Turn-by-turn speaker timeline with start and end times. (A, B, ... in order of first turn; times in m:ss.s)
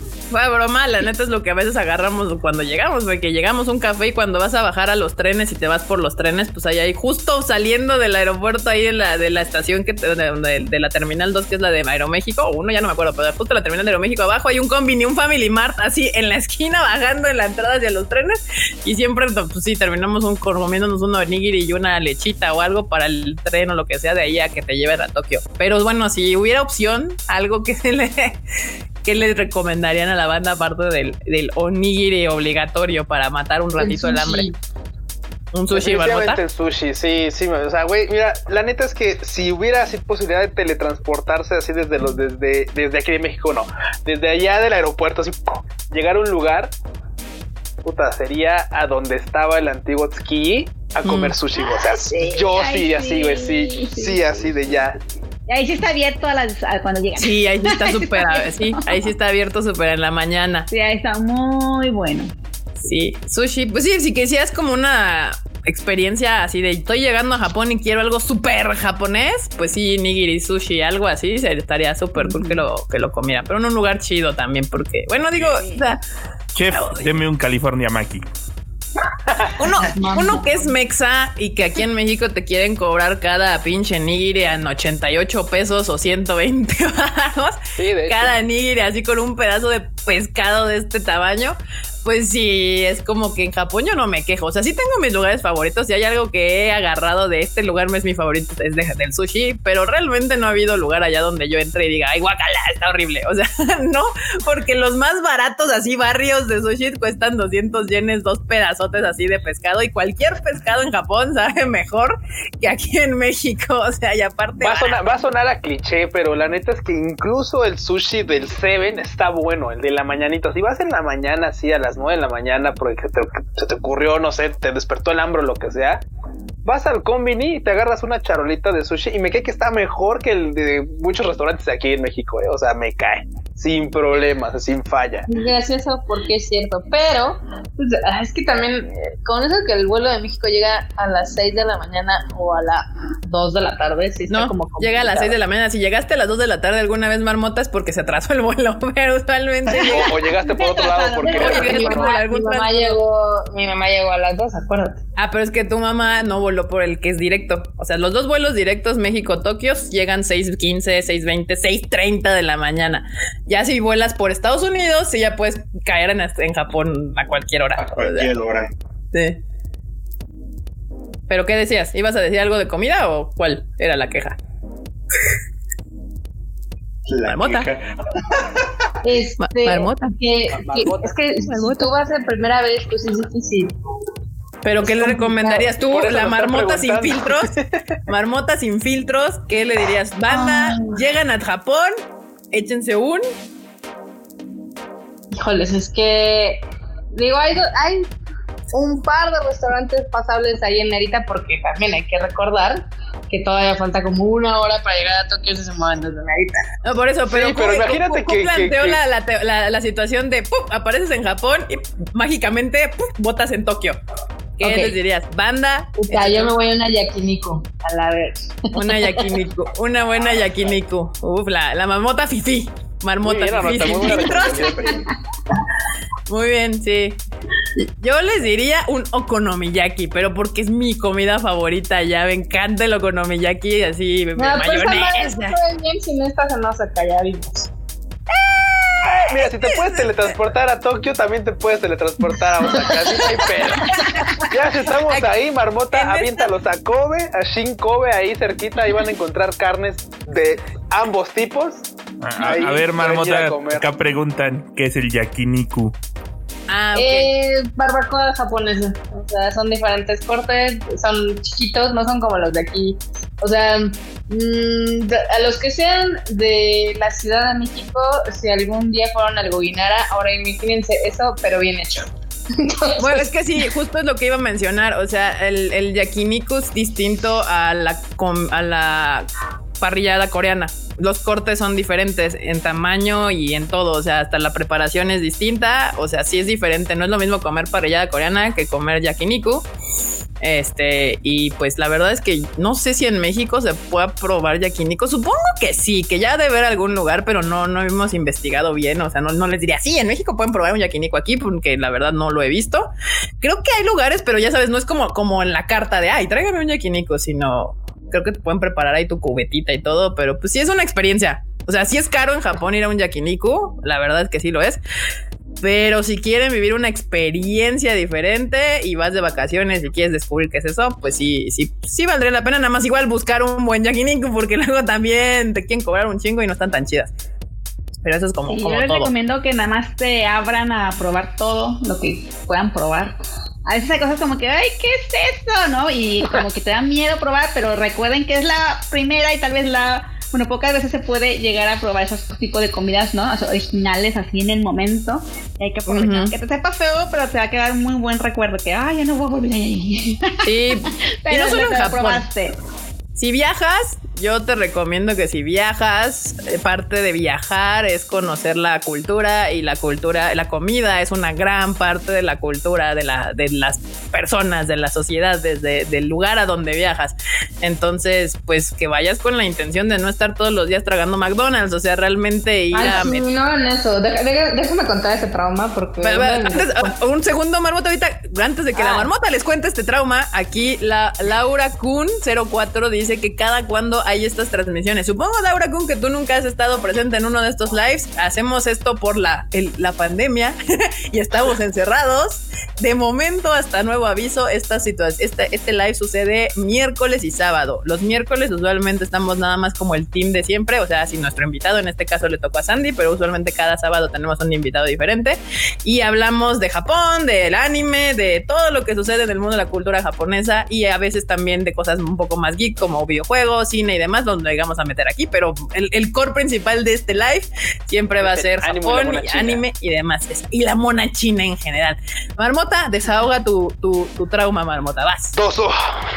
0:00.3-0:28.4 A
0:29.0-0:34.5 A
0:33.8-0:34.6 B
0:35.5-0:36.4 A
0:35.7-0:46.7 C
0:47.8-0:55.0 C
0:51.0-0:51.4 A
0:51.6-0:54.2 D
0:55.5-0:59.0 D
0:57.2-1:00.7 A
1:00.7-1:02.3 D
1:02.8-1:16.0 A
1:12.2-1:12.6 D
1:16.5-1:18.2 E
1:16.7-1:17.2 A
1:19.6-1:55.0 A
1:19.9-1:20.5 B
1:27.8-1:28.3 C
1:54.6-2:06.0 C
2:06.6-2:15.3 C
2:15.3-2:25.4 B
2:24.3-2:30.2 A
2:29.7-2:32.1 C
2:29.7-2:35.0 B
2:31.2-2:33.0 A
2:35.2-2:48.3 A
2:47.8-2:48.7 F
2:49.1-2:49.4 A
2:51.3-2:54.4 A
2:57.0-2:58.9 F
2:57.2-2:57.7 A
2:59.0-3:03.7 B
2:59.4-3:00.2 A
3:00.5-3:01.1 C
3:04.6-3:07.5 A
3:04.8-3:05.7 B
3:05.9-3:07.8 C
3:08.1-3:12.0 A
3:10.3-3:11.0 B
3:12.5-3:13.3 A
3:15.3-3:16.6 B
3:17.1-3:18.1 B
3:18.7-3:26.7 B
3:26.8-3:34.0 A
3:27.3-3:29.0 C
3:34.6-3:36.5 A
3:34.6-3:35.0 B
3:36.0-3:39.3 B
3:38.7-3:44.8 A
3:43.2-3:44.8 C
3:43.6-3:45.1 F
3:46.3-3:47.2 A
3:47.8-3:55.6 A
3:54.4-3:57.6 B
3:58.3-4:00.1 A
3:59.0-4:11.8 C
4:02.7-4:03.4 B
4:04.0-4:05.3 A
4:05.9-4:06.5 A
4:12.2-4:15.9 E
4:12.4-4:13.9 C
4:16.7-4:17.3 A
4:17.0-4:33.3 B
4:33.0-4:39.3 A
4:39.8-4:49.7 A
4:50.4-5:02.9 A
5:03.4-5:14.8 A
5:15.6-5:27.1 A
5:28.0-5:29.1 A
5:28.5-5:52.6 D
5:45.9-5:46.3 A
5:50.4-5:52.2 A
5:53.2-6:13.2 A
6:12.7-6:16.9 B
6:16.0-6:30.6 A
6:18.8-6:19.1 B
6:31.1-7:05.4 A
6:58.2-6:59.6 C
7:05.4-7:06.0 C